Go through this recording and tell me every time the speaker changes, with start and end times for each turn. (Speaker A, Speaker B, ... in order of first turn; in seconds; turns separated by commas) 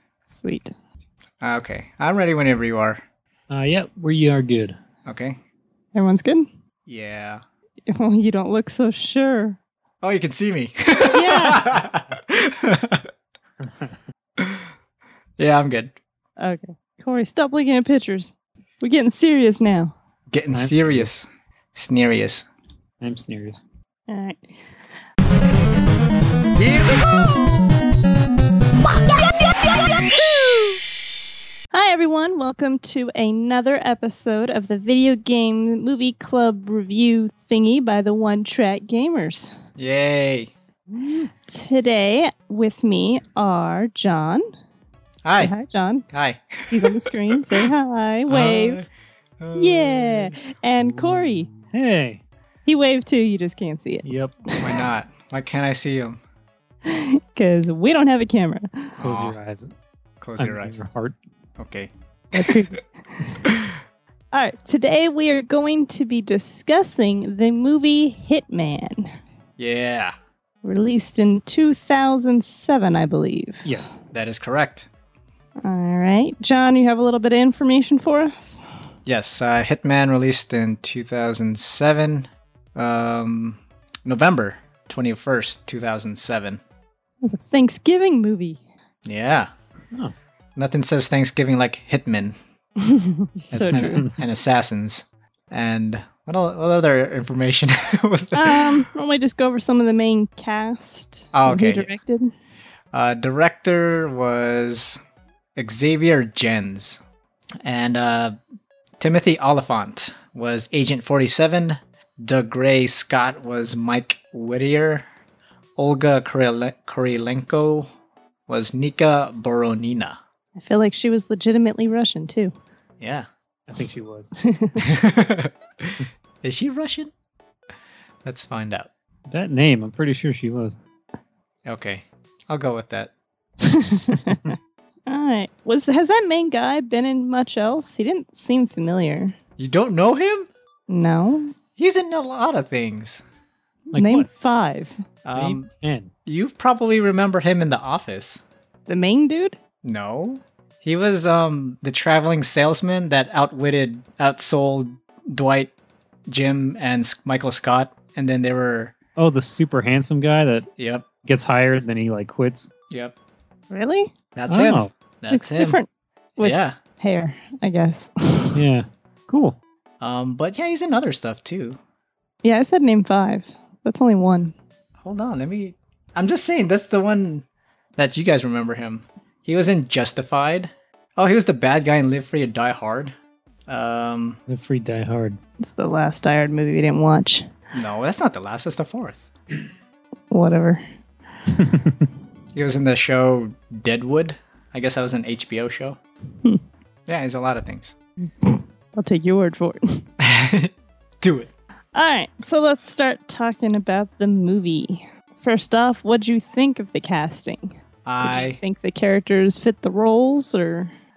Speaker A: 0.3-0.7, Speaker B: 1.4-3.0, Speaker C: 3.5-4.7, Speaker B: 5.0-5.4, Speaker A: 5.9-6.5, Speaker B: 6.8-7.4, Speaker A: 7.9-9.6, Speaker B: 10.0-13.1, Speaker A: 11.1-11.7, Speaker B: 14.4-14.6, Speaker B: 15.4-15.9, Speaker A: 16.4-19.9, Speaker B: 20.3-22.4, Speaker C: 20.5-21.1, Speaker C: 23.0-23.6, Speaker A: 24.1-24.5, Speaker A: 31.7-39.5, Speaker B: 39.8-40.5, Speaker A: 41.0-44.5, Speaker B: 45.2-45.5, Speaker A: 45.4-46.0, Speaker B: 46.1-47.0, Speaker A: 46.7-48.9, Speaker B: 48.3-48.9, Speaker B: 49.4-50.3, Speaker A: 49.5-51.5, Speaker C: 50.8-52.2, Speaker A: 52.6-54.8, Speaker C: 54.0-54.3, Speaker B: 54.6-56.2, Speaker A: 56.8-59.0, Speaker B: 59.0-59.4, Speaker C: 59.0-59.7, Speaker B: 60.2-60.8, Speaker C: 60.4-61.1, Speaker B: 61.6-62.8, Speaker A: 62.3-63.5, Speaker B: 63.4-63.7, Speaker A: 64.3-69.1, Speaker B: 69.6-70.1, Speaker A: 70.6-73.9, Speaker C: 73.6-73.9, Speaker B: 74.1-74.9, Speaker A: 75.6-78.6, Speaker B: 79.0-86.6, Speaker A: 87.2-88.6, Speaker B: 89.0-89.5, Speaker B: 90.5-92.3, Speaker A: 92.8-94.1, Speaker B: 93.5-98.8, Speaker C: 93.7-94.1, Speaker A: 98.3-102.3, Speaker B: 101.3-101.9, Speaker B: 102.9-105.0, Speaker B: 105.5-107.0, Speaker B: 107.6-108.3, Speaker B: 109.0-115.0, Speaker B: 115.8-117.9, Speaker B: 118.5-120.2, Speaker A: 120.5-122.5, Speaker B: 123.0-123.3, Speaker C: 123.7-124.3, Speaker A: 124.4-124.8, Speaker B: 124.8-127.1, Speaker B: 128.2-128.9, Speaker C: 129.3-130.7, Speaker B: 131.6-133.1, Speaker A: 133.6-134.5, Speaker A: 135.1-139.3, Speaker B: 139.6-140.5, Speaker A: 140.9-141.5, Speaker B: 141.8-143.2, Speaker A: 143.9-145.0, Speaker C: 143.9-144.3, Speaker B: 145.2-145.7, Speaker C: 145.3-146.1, Speaker B: 146.2-148.4, Speaker A: 148.9-149.6, Speaker B: 149.8-155.7, Speaker B: 156.3-158.9, Speaker C: 159.2-160.7, Speaker B: 160.8-161.1, Speaker C: 161.2-162.7, Speaker B: 162.9-163.1, Speaker A: 163.7-164.1, Speaker B: 164.3-165.8, Speaker C: 164.5-164.9, Speaker A: 165.3-168.6, Speaker B: 166.4-166.7, Speaker C: 168.5-169.6, Speaker B: 170.0-171.8, Speaker A: 172.4-174.5, Speaker B: 175.0-177.4, Speaker B: 178.0-183.1, Speaker B: 183.7-184.4, Speaker C: 184.5-185.4, Speaker A: 185.6-187.4, Speaker B: 187.7-189.3, Speaker A: 190.3-190.8, Speaker C: 191.6-192.1, Speaker B: 192.5-196.0, Speaker B: 197.1-197.9, Speaker A: 198.4-200.0, Speaker B: 200.2-201.5, Speaker A: 201.9-210.9, Speaker B: 208.0-208.6